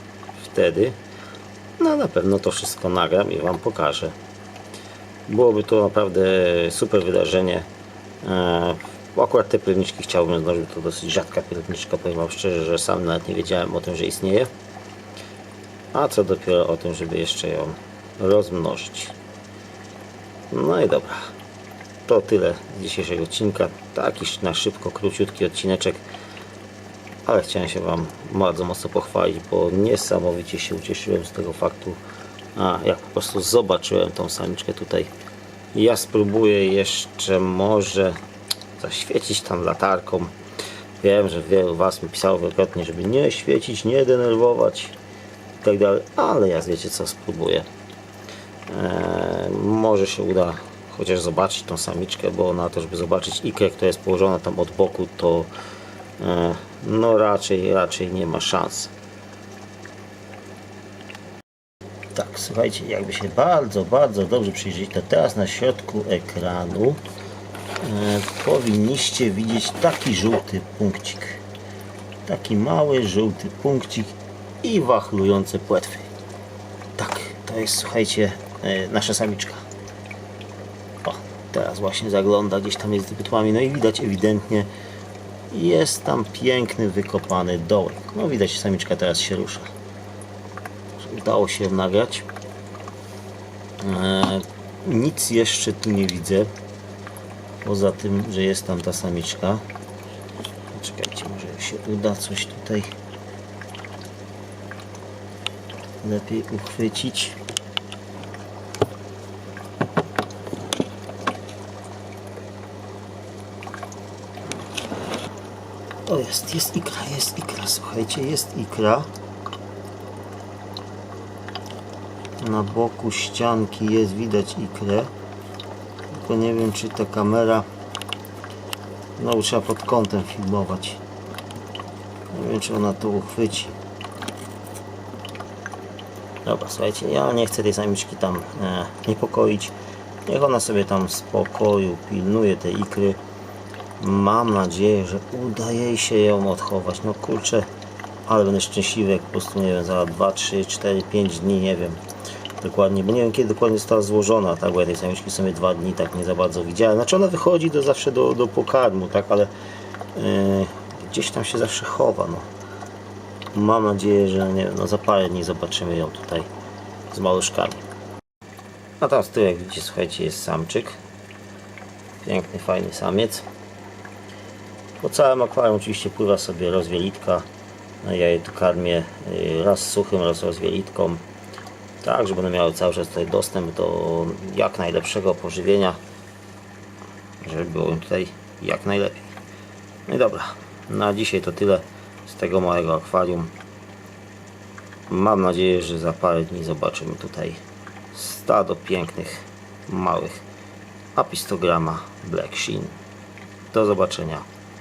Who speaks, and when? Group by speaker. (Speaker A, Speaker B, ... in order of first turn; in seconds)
Speaker A: 0.4-0.9, 1.8-4.2, 5.3-7.7, 8.2-14.5, 15.9-19.1, 20.5-21.3, 22.1-26.0, 27.2-32.0, 32.5-35.1, 35.7-38.2, 38.8-40.3, 41.0-45.0, 45.6-47.7, 48.7-55.5, 56.2-58.9, 62.1-67.0, 67.8-71.4, 72.2-76.1, 77.0-79.6, 81.0-84.7, 85.5-89.7, 91.0-92.2, 93.8-96.5, 97.6-99.6, 100.7-102.9, 106.0-107.4, 116.1-119.1, 122.4-125.1, 126.1-127.7, 129.2-131.0, 132.3-133.8, 136.4-139.7, 140.2-143.2, 144.0-147.7, 148.2-152.0, 152.6-159.5, 160.2-162.5, 163.5-166.5, 167.1-167.8, 169.0-171.0, 172.2-173.4, 175.0-177.5, 178.0-181.2, 182.0-186.0, 187.4-189.3, 190.1-193.5, 195.1-197.6, 198.1-200.4, 201.2-202.9, 203.7-204.4